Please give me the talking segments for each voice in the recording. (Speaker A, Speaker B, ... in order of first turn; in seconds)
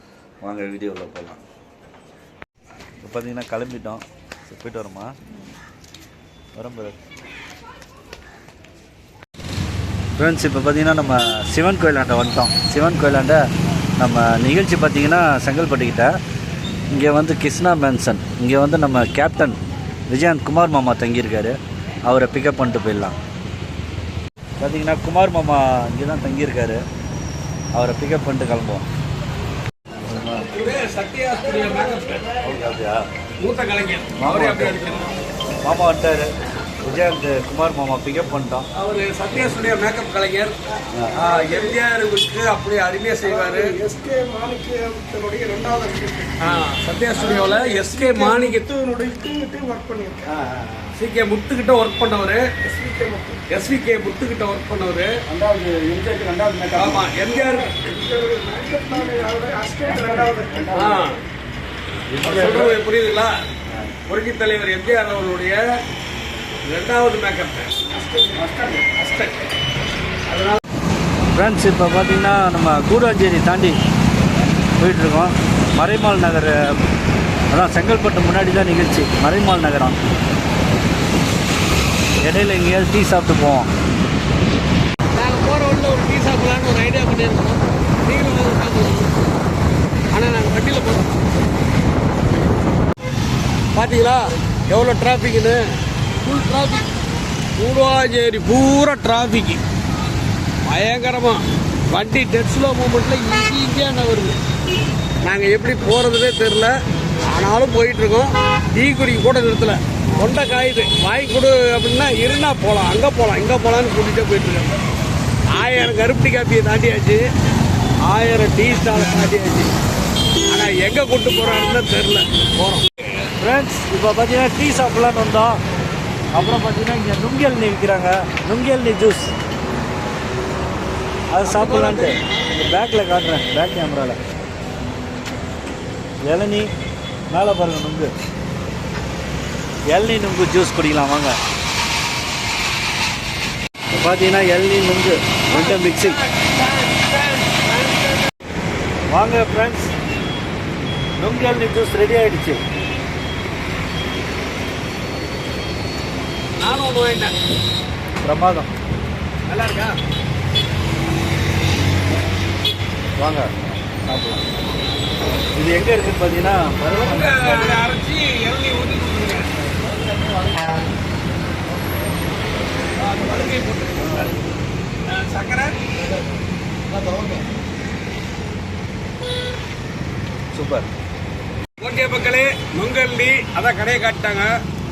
Speaker A: 0.4-1.4, 3.0-5.2, 6.6-7.0, 10.2-13.4, 14.0-16.2, 16.9-23.1, 24.6-26.9, 27.7-28.9, 30.0-30.5, 32.4-33.1, 34.2-34.8, 35.6-36.3, 36.8-38.7, 40.9-41.2, 50.5-50.9, 55.3-57.0, 60.5-61.0, 62.1-62.8, 71.3-73.8, 74.8-76.8, 77.5-80.0, 82.2-83.7, 123.4-125.6, 126.3-129.3, 131.3-134.2, 136.3-136.7, 137.3-138.1, 139.9-141.4, 143.9-146.2, 149.1-149.9, 151.2-152.6, 158.2-158.7, 163.2-164.4, 165.6-167.8, 174.0-174.3, 180.5-180.9
Speaker B: 30.5-32.3, 33.4-35.1, 38.7-40.5, 41.1-43.8, 46.4-48.7, 50.9-52.7, 53.4-55.1, 56.8-58.0, 60.6-61.2, 62.2-63.3, 64.1-65.6, 66.7-69.4, 70.3-70.6, 85.1-89.2, 90.1-91.2, 93.7-95.6, 96.2-96.9, 97.6-99.6, 100.7-104.4, 105.2-114.8, 115.5-117.2, 118.0-119.7, 120.5-123.3, 131.4-132.2, 145.5-148.3, 156.6-157.3, 159.5-160.0, 166.9-169.7, 173.0-174.2, 175.1-175.8, 181.8-184.5
Speaker C: 43.6-46.4, 47.8-50.3, 52.7-53.4, 57.9-60.7